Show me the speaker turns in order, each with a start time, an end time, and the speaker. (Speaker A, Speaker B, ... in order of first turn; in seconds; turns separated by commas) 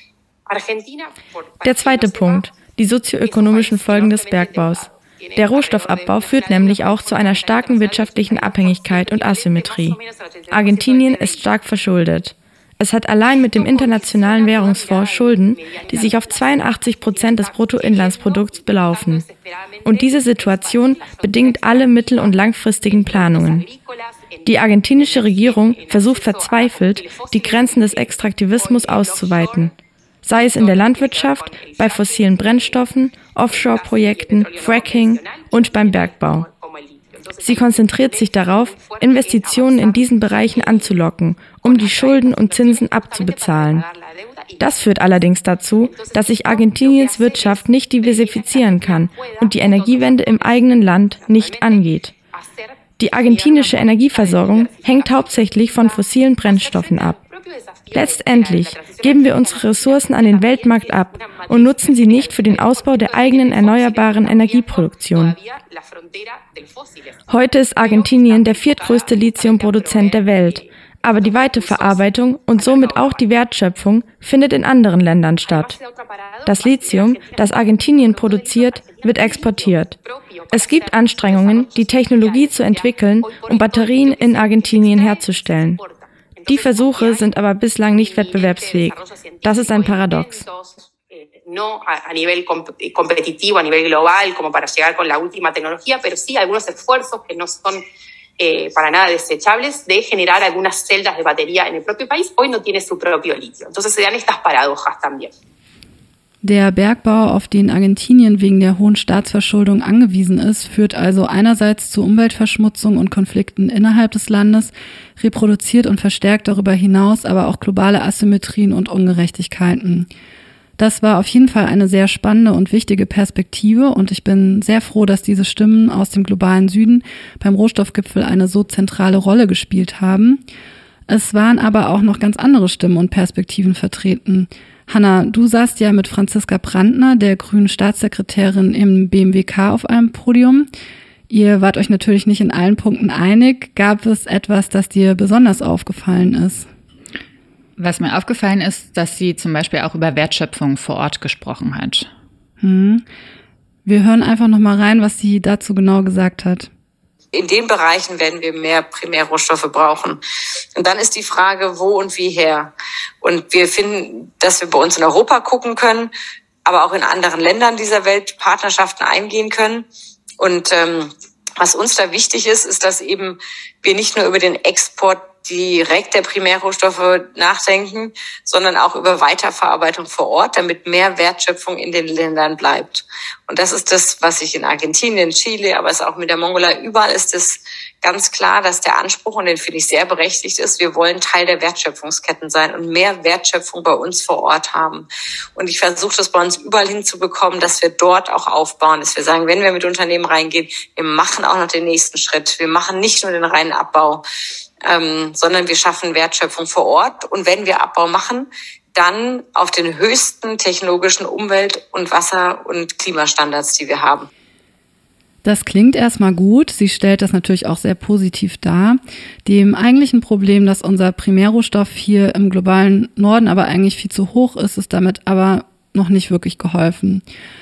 Speaker A: 0.5-2.7, Speaker B: 1.6-10.0, Speaker A: 3.2-11.5, Speaker B: 10.5-19.2, Speaker A: 13.4-29.7, Speaker B: 19.8-23.6, Speaker B: 24.4-29.7, Speaker B: 30.2-36.5, Speaker A: 30.3-32.9, Speaker A: 33.5-41.0, Speaker B: 37.4-43.8, Speaker A: 41.6-45.0, Speaker B: 44.6-52.1, Speaker A: 45.8-67.2, Speaker B: 53.0-57.2, Speaker B: 57.9-65.3, Speaker B: 67.3-75.8, Speaker A: 67.8-73.3, Speaker A: 75.4-87.3, Speaker B: 76.4-80.0, Speaker B: 80.5-85.8, Speaker B: 86.5-90.4, Speaker A: 87.9-97.8, Speaker A: 98.4-105.3, Speaker C: 106.4-120.1, Speaker C: 120.8-130.4, Speaker C: 131.1-140.7, Speaker C: 141.3-146.7, Speaker D: 147.8-152.1, Speaker C: 152.6-153.0, Speaker C: 153.8-156.7, Speaker E: 157.3-160.2, Speaker E: 160.7-166.1, Speaker E: 166.6-169.9, Speaker E: 170.4-204.2, Speaker E: 204.8-214.3, Speaker C: 215.4-227.2